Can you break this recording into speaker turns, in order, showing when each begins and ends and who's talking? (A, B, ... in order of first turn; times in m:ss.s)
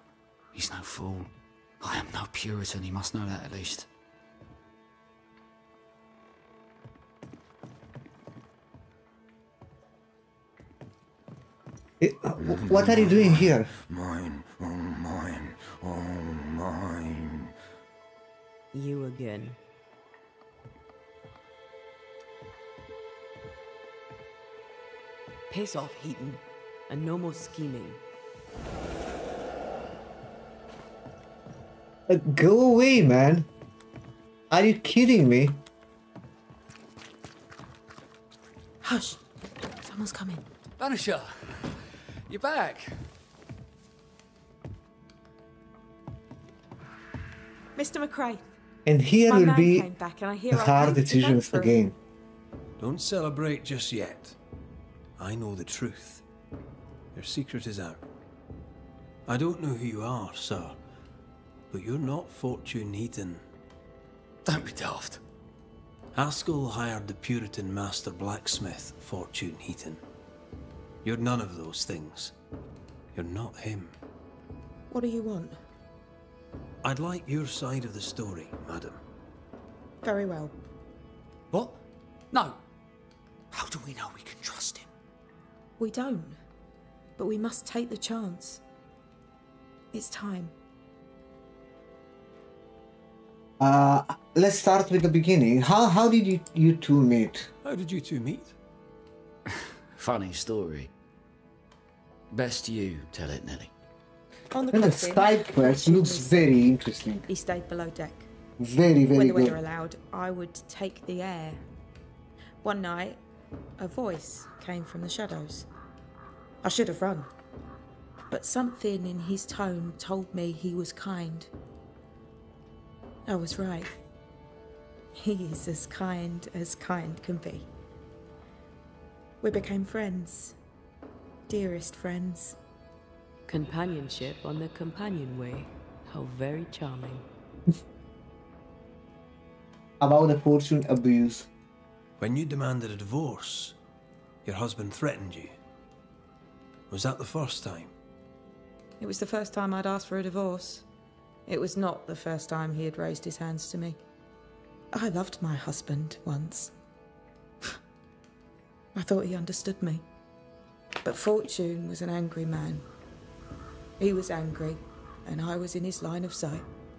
0:00.5-0:03.9 A
0:12.0-0:13.7 B
0:12.8-0:17.5 C
0:18.7-0:19.6 D
0:25.5-0:28.0 D
0:32.1-0:33.5 B
0:34.5-0:35.6 B
0:38.8-0:39.2 E
0:39.8-0:40.4 E
0:40.8-0:41.8 A
0:42.3-0:43.0 A
0:47.8-0:48.6 E
0:48.9-0:49.9 B
0:49.3-0:51.8 E
0:50.5-0:52.0 B
0:52.8-0:54.4 F
0:55.2-0:56.2 F
0:57.1-0:58.0 F
0:59.3-1:00.8 F
1:01.7-1:03.4 F
1:04.5-1:05.2 A
1:06.1-1:10.0 F
1:11.0-1:12.3 F
1:13.2-1:13.9 F
1:14.9-1:15.6 E
1:16.8-1:19.0 F
1:20.0-1:20.6 E
1:21.5-1:22.6 A
1:23.5-1:24.9 A
1:25.8-1:26.4 E
1:27.2-1:28.6 E
1:29.9-1:30.5 E
1:33.6-1:37.5 B
1:37.6-1:38.6 F
1:40.0-1:40.9 A
1:42.3-1:43.7 A
1:44.5-1:46.5 E
1:44.7-1:47.2 B
1:47.3-1:48.3 E
1:48.6-1:49.6 B
1:49.1-1:51.6 E
1:52.6-1:53.2 E
1:53.8-1:55.7 E
1:56.6-1:57.3 E
1:58.3-2:01.5 E
2:03.3-2:03.9 E
2:05.2-2:07.7 E
2:09.4-2:10.6 E
2:11.5-2:12.6 E
2:13.5-2:17.2 D
2:20.0-2:21.5 B
2:22.2-2:23.8 F
2:24.4-2:25.5 F
2:26.9-2:27.9 F
2:29.0-2:30.8 E
2:31.5-2:34.0 E
2:34.9-2:36.7 E
2:39.0-2:40.0 E
2:41.0-2:42.9 E
2:44.0-2:46.7 E